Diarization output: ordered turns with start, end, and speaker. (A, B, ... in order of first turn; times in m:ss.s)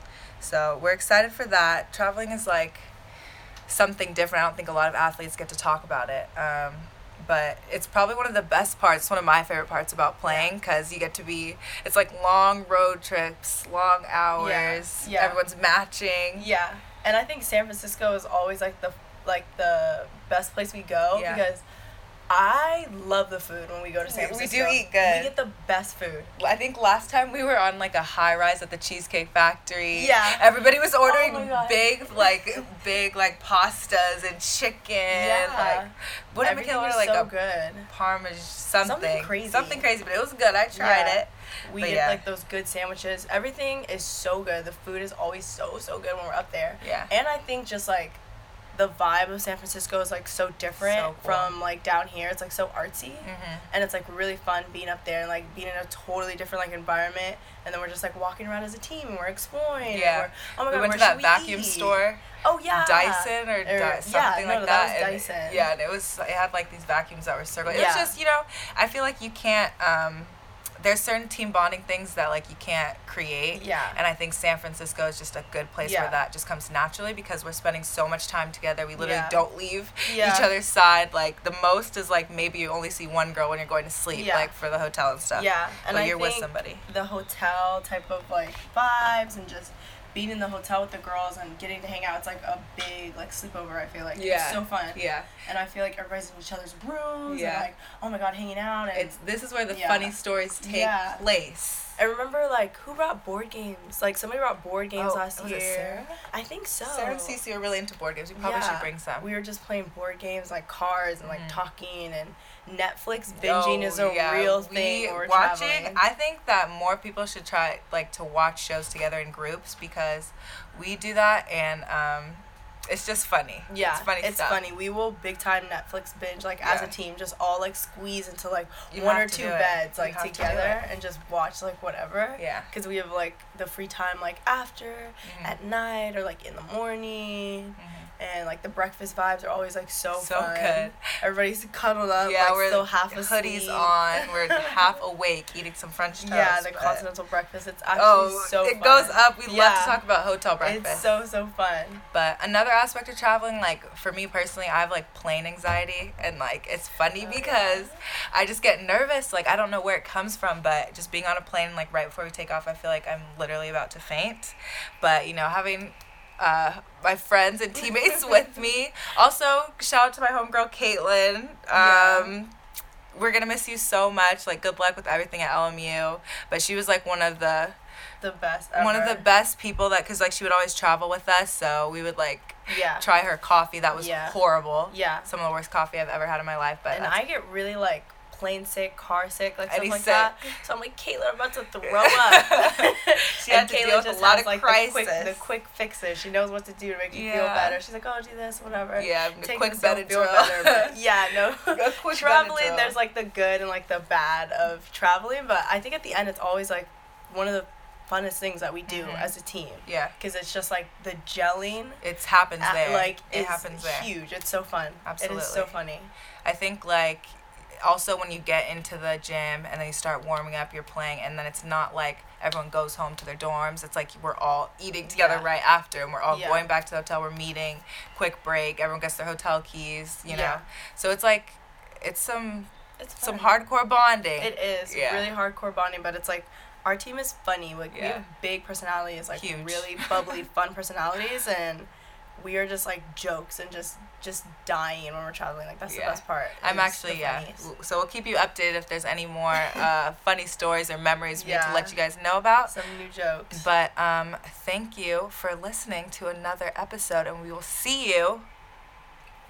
0:00.4-0:02.9 A
0:03.7-0:16.5 A
0:10.2-0:10.5 B
0:14.3-0:15.4 B
0:16.4-0:21.6 B
0:21.1-0:21.4 A
0:22.3-0:26.3 B
0:24.1-0:25.3 A
0:26.4-0:37.3 A
0:29.9-0:30.4 B
0:31.0-0:32.6 B
0:35.1-0:37.9 B
0:37.9-0:42.2 A
0:38.8-0:39.9 B
0:40.7-0:48.2 B
0:46.8-0:47.1 A
0:48.7-1:05.7 B
0:50.8-0:51.5 A
0:53.2-0:53.7 A
0:59.8-1:26.8 A
1:07.6-1:08.1 B
1:13.5-1:14.0 B
1:15.8-1:16.2 B
1:19.0-1:19.4 B
1:20.0-1:20.5 B
1:24.1-1:24.5 B
1:25.3-1:41.2 B
1:34.1-1:35.3 A
1:37.3-1:37.7 A
1:38.9-1:42.0 A
1:42.0-1:47.4 B
1:45.0-1:46.2 A
1:46.8-1:49.3 A
1:48.4-1:56.0 B
1:51.2-1:51.6 A
1:53.3-2:04.6 A
2:03.7-2:25.0 B
2:06.6-2:06.9 A
2:08.9-2:10.9 A
2:12.4-2:12.7 A
2:15.2-2:15.6 A
2:17.8-2:18.1 A
2:20.1-2:21.0 A
2:22.2-2:27.0 A
2:26.2-2:30.0 B
2:27.9-2:31.1 A
2:30.6-2:32.0 B
2:32.1-2:52.5 A
2:37.2-2:38.0 B
2:51.7-2:52.3 B
2:53.1-2:57.8 A
2:58.2-2:59.2 B
2:58.7-3:07.2 A
3:02.7-3:03.1 B
3:03.9-3:05.3 B
3:06.9-3:32.0 B
3:09.7-3:10.5 A
3:12.0-3:15.4 A
3:17.1-3:17.8 A
3:19.0-3:21.0 A
3:21.6-3:23.0 A
3:28.9-3:29.3 A
3:29.8-3:30.1 A
3:32.0-3:34.1 A
3:32.6-3:36.1 B
3:35.0-3:35.7 A
3:36.4-3:55.3 A
3:45.0-3:45.5 B
3:46.3-3:46.7 B
3:50.3-3:50.6 B
3:53.0-3:53.6 B
3:54.4-4:07.7 B
3:57.9-3:58.2 A
3:59.3-4:00.4 A
4:05.9-4:12.7 A
4:09.5-4:09.8 B
4:11.3-4:12.0 B
4:12.7-4:13.6 B
4:13.5-4:18.4 A